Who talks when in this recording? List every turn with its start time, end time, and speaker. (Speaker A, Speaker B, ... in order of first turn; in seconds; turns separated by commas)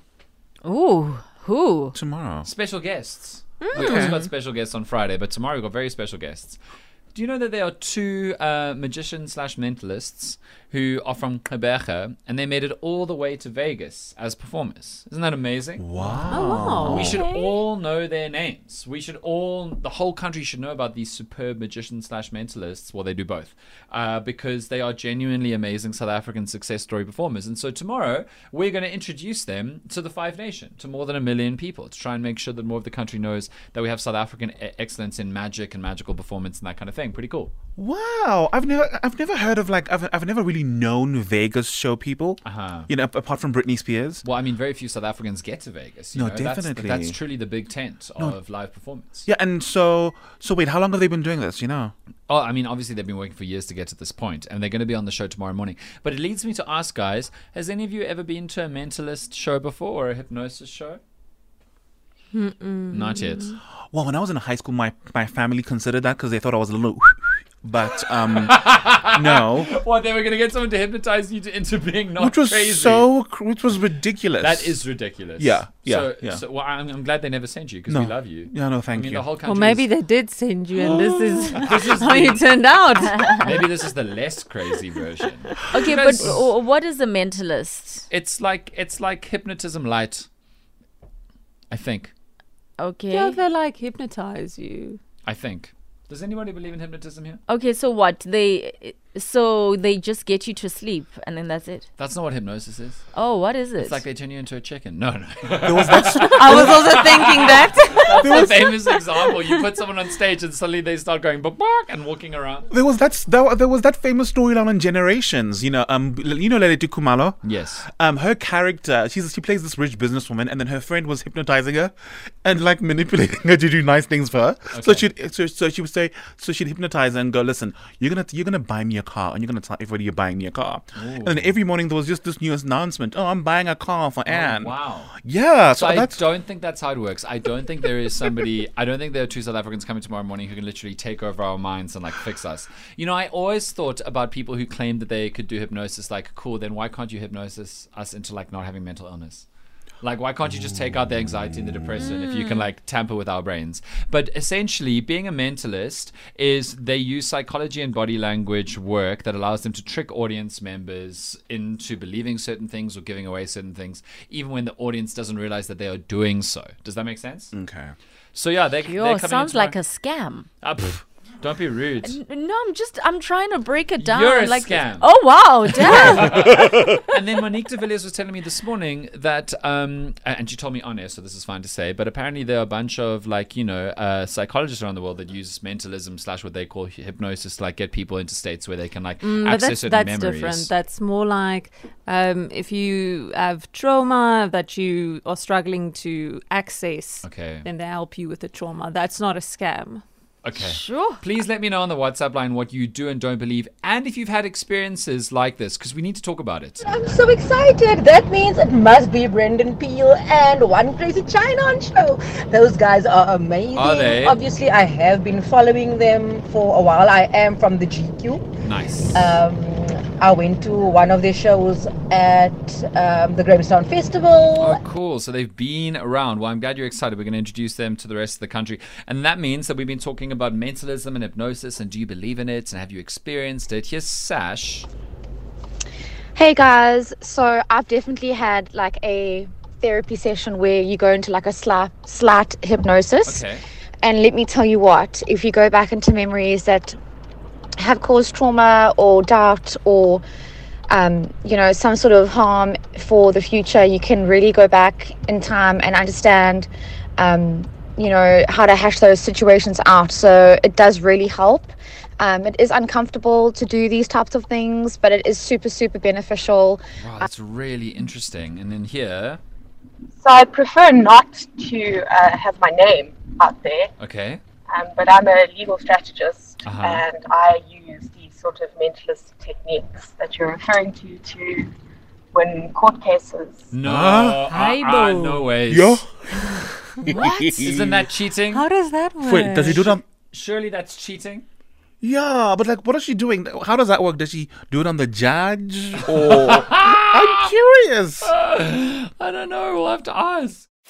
Speaker A: 0.6-1.9, Speaker B: 1.9-2.5, Speaker C: 2.4-6.6, Speaker A: 3.6-4.2, Speaker B: 3.8-4.2, Speaker C: 7.1-16.2, Speaker B: 15.8-17.2, Speaker D: 16.2-17.1, Speaker C: 16.9-37.5, Speaker B: 37.8-44.2, Speaker C: 42.4-42.9, Speaker C: 44.2-49.2, Speaker B: 46.1-47.2, Speaker B: 49.2-51.9, Speaker C: 52.3-61.0, Speaker D: 62.3-63.6, Speaker C: 62.9-63.6, Speaker B: 63.9-68.6, Speaker C: 68.4-73.1, Speaker B: 69.1-69.7, Speaker B: 72.2-74.8, Speaker C: 74.4-79.9, Speaker B: 75.4-76.4, Speaker B: 77.9-79.2, Speaker D: 79.4-83.6, Speaker B: 80.8-81.5, Speaker C: 81.5-82.5, Speaker A: 83.0-83.7, Speaker C: 83.4-86.5, Speaker A: 85.7-88.1, Speaker C: 88.1-90.3, Speaker C: 91.7-92.1, Speaker A: 92.8-93.4, Speaker D: 93.1-95.0, Speaker C: 95.2-97.4, Speaker A: 97.5-101.9, Speaker C: 102.0-103.1, Speaker A: 103.1-104.0, Speaker C: 103.8-112.7, Speaker B: 105.6-107.1, Speaker D: 106.2-109.6, Speaker B: 108.2-108.6, Speaker B: 112.7-117.4, Speaker C: 117.4-117.9, Speaker B: 117.9-136.2, Speaker C: 124.7-125.1, Speaker C: 130.9-131.6, Speaker C: 134.3-135.1, Speaker C: 135.7-149.4, Speaker C: 150.0-167.5, Speaker A: 152.3-152.6, Speaker B: 167.5-167.9, Speaker C: 168.3-169.8, Speaker A: 168.8-170.5, Speaker C: 170.6-172.2, Speaker A: 172.0-176.6, Speaker C: 174.0-190.7, Speaker D: 189.2-200.0, Speaker C: 197.2-197.7, Speaker C: 200.4-206.8, Speaker A: 200.6-201.2, Speaker E: 206.8-218.4, Speaker C: 213.7-214.4, Speaker C: 218.6-219.3, Speaker E: 219.1-224.8, Speaker C: 224.6-234.9, Speaker F: 236.3-243.4, Speaker C: 243.2-243.6, Speaker F: 244.0-247.0, Speaker F: 247.8-250.2, Speaker F: 250.9-267.2, Speaker C: 267.0-269.4, Speaker G: 270.1-273.9, Speaker C: 274.0-274.4, Speaker G: 274.7-281.7, Speaker C: 276.6-277.1, Speaker G: 282.3-283.7, Speaker C: 283.7-286.0, Speaker B: 283.8-284.5, Speaker D: 284.5-285.5, Speaker B: 285.7-288.0, Speaker C: 287.1-288.6, Speaker D: 288.5-289.9, Speaker B: 289.2-290.0, Speaker C: 289.8-291.4, Speaker B: 292.0-298.3, Speaker C: 296.0-297.4, Speaker C: 298.2-300.6